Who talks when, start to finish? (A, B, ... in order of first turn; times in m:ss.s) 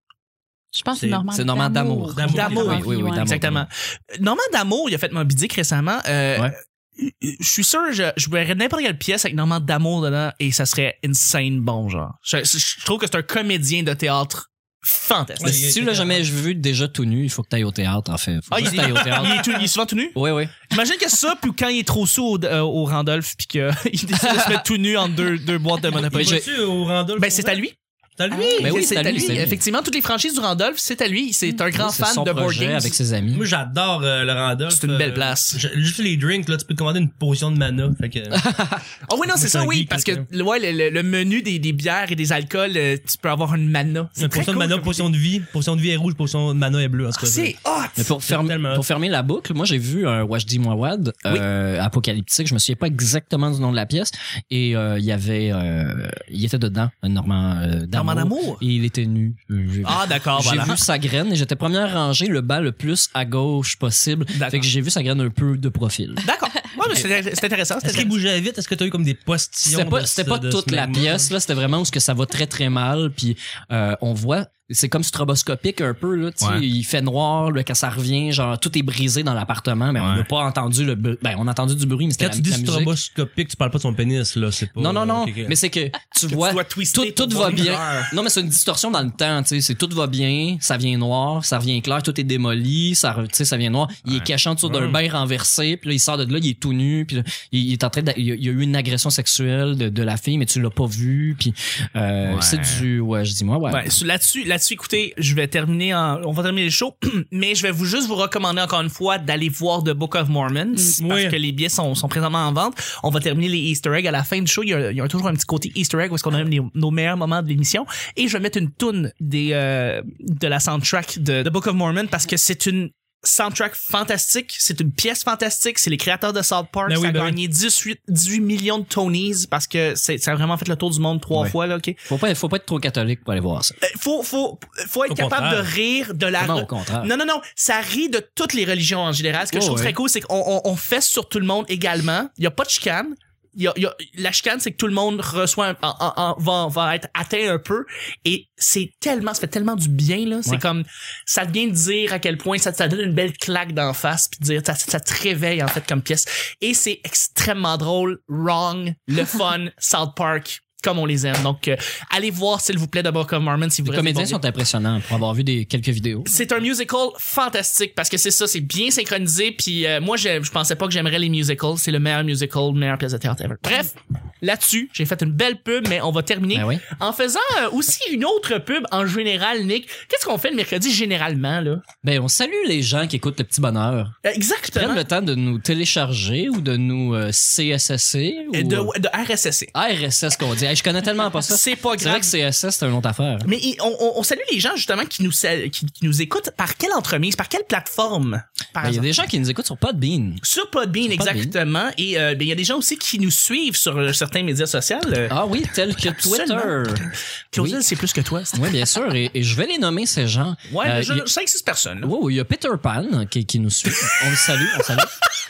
0:00.7-0:03.3 A
0:01.0-0:01.2 B
0:01.3-0:03.7 C
0:02.1-0:02.8 B
0:02.2-0:15.7 D
0:15.4-0:16.2 B
0:15.4-0:20.5 C
0:18.5-0:20.2 D
0:20.7-0:26.4 D
0:24.2-0:24.6 C
0:26.1-0:26.5 C
0:26.1-0:27.6 B
0:27.2-0:27.7 D
0:28.2-0:28.8 B
0:28.3-0:29.4 A
0:28.6-0:33.0 D
0:28.6-0:29.6 C
0:31.7-0:33.5 C
0:33.3-0:38.4 B
0:34.7-0:35.6 D
0:38.3-0:38.8 C
0:39.0-0:45.0 D
0:39.3-0:40.2 B
0:44.2-0:47.5 B
0:47.1-0:48.1 D
0:48.0-1:06.2 C
0:48.2-0:48.8 B
0:57.9-0:58.6 D
0:59.8-1:00.8 D
1:04.3-1:04.7 D
1:06.2-1:08.1 D
1:07.8-1:11.3 B
1:09.6-1:22.9 C
1:20.0-1:20.2 D
1:22.2-1:25.6 B
1:24.8-1:43.9 C
1:26.3-1:28.1 D
1:34.6-1:35.0 B
1:42.3-1:42.8 D
1:43.7-2:12.0 D
1:51.0-1:51.4 B
2:06.9-2:07.4 B
2:12.1-2:13.8 C
2:13.8-2:44.4 D
2:15.1-2:15.7 B
2:16.4-2:17.1 C
2:19.5-2:20.0 C
2:43.8-2:46.4 C
2:46.3-3:01.8 D
2:56.5-2:56.8 C
3:02.0-3:04.1 C
3:04.2-3:05.0 D
3:04.7-3:08.9 C
3:08.5-3:09.7 D
3:09.7-3:13.5 C
3:11.4-3:12.3 D
3:13.4-3:19.1 D
3:18.8-3:20.4 C
3:20.4-3:25.3 D
3:21.1-3:21.6 C
3:25.3-3:27.8 C
3:26.1-3:28.6 D
3:28.5-3:31.2 C
3:30.7-3:32.1 D
3:32.0-3:35.1 C